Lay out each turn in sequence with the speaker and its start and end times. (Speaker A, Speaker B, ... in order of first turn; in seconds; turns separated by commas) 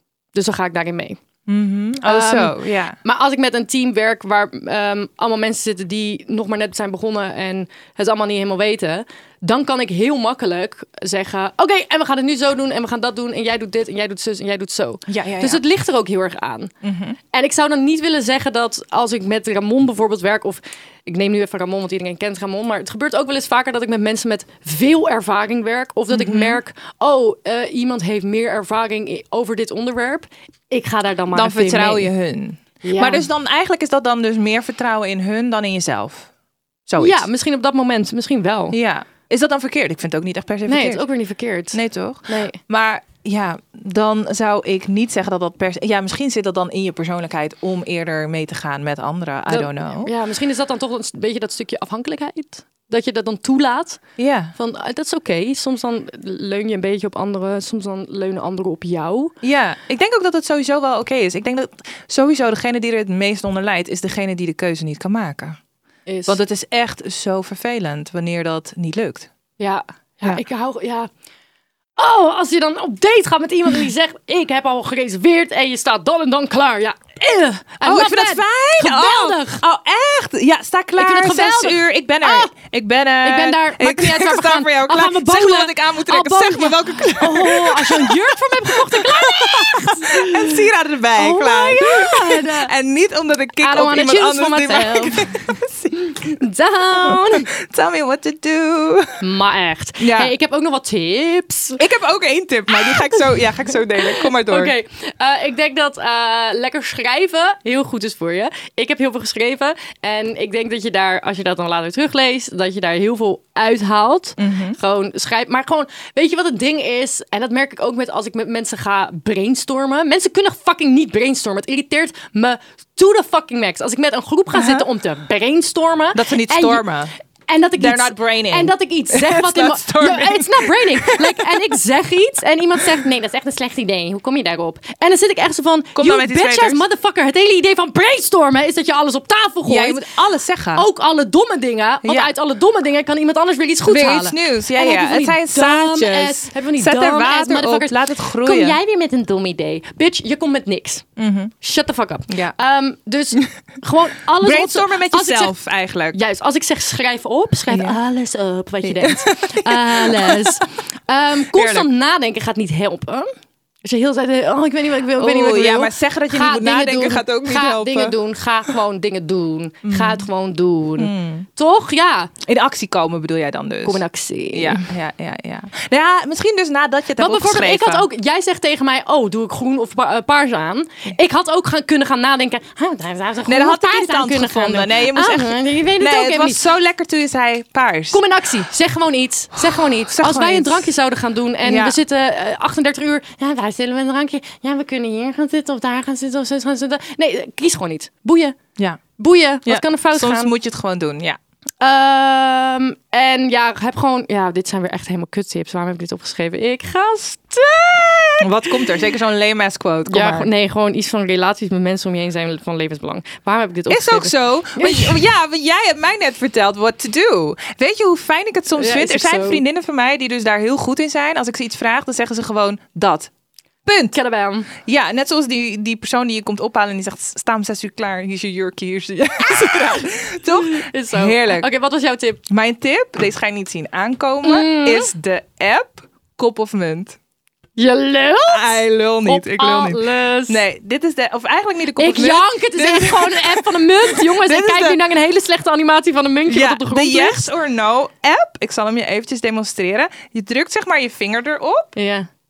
Speaker A: 0.3-1.2, Speaker B: 1.5-3.0, Speaker A: 2.0-16.7, Speaker B: 15.1-15.6, Speaker B: 16.8-17.2, Speaker A: 17.3-32.1, Speaker B: 26.1-26.6, Speaker B: 31.3-36.3, Speaker A: 32.8-33.3, Speaker B: 36.9-37.3, Speaker A: 37.0-38.8, Speaker B: 38.7-41.1, Speaker A: 40.7-42.6, Speaker B: 41.7-50.1, Speaker A: 49.5-54.0, Speaker B: 54.2-54.5, Speaker A: 54.5-59.3, Speaker B: 59.4-65.6, Speaker A: 66.1-66.4, Speaker B: 66.3-69.3, Speaker A: 69.6-71.1, Speaker A: 72.0-79.6, Speaker B: 77.8-96.4, Speaker A: 81.0-82.5, Speaker A: 83.2-90.6, Speaker A: 91.1-92.7, Speaker A: 93.6-95.2, Speaker A: 96.0-97.5, Speaker B: 96.9-99.1, Speaker A: 99.2-101.8, Speaker B: 100.0-100.3, Speaker B: 101.8-104.8, Speaker A: 102.7-126.9, Speaker B: 114.4-114.8, Speaker B: 124.5-124.8, Speaker B: 126.1-127.1, Speaker A: 127.5-140.1, Speaker B: 127.8-131.5, Speaker B: 135.9-136.8, Speaker B: 139.7-140.9, Speaker A: 140.7-151.1, Speaker B: 142.0-142.3, Speaker B: 143.9-148.8, Speaker B: 151.2-151.5, Speaker A: 151.6-155.6, Speaker B: 152.3-152.5, Speaker B: 154.4-156.2, Speaker A: 156.1-163.3, Speaker B: 157.7-158.0, Speaker B: 158.8-160.6, Speaker B: 161.5-161.9, Speaker A: 163.8-172.3, Speaker B: 165.2-168.2, Speaker B: 169.8-170.2, Speaker B: 171.0-171.5, Speaker B: 172.4-178.1, Speaker A: 173.8-174.8, Speaker A: 177.2-186.7, Speaker B: 183.5-188.2, Speaker A: 188.1-198.6, Speaker B: 189.6-190.9, Speaker B: 191.6-192.0, Speaker A: 199.2-200.5, Speaker B: 199.7-201.4, Speaker A: 201.8-208.8, Speaker B: 208.4-210.5, Speaker A: 210.1-215.2, Speaker B: 213.9-223.3, Speaker A: 218.8-219.6, Speaker B: 223.9-224.1, Speaker A: 224.1-224.7, Speaker B: 224.8-231.7, Speaker A: 229.7-230.0, Speaker A: 230.6-232.4, Speaker B: 232.5-237.2, Speaker A: 234.4-235.1, Speaker A: 237.8-240.6, Speaker B: 238.5-245.0, Speaker A: 242.0-247.5, Speaker B: 246.5-251.8, Speaker A: 251.9-252.3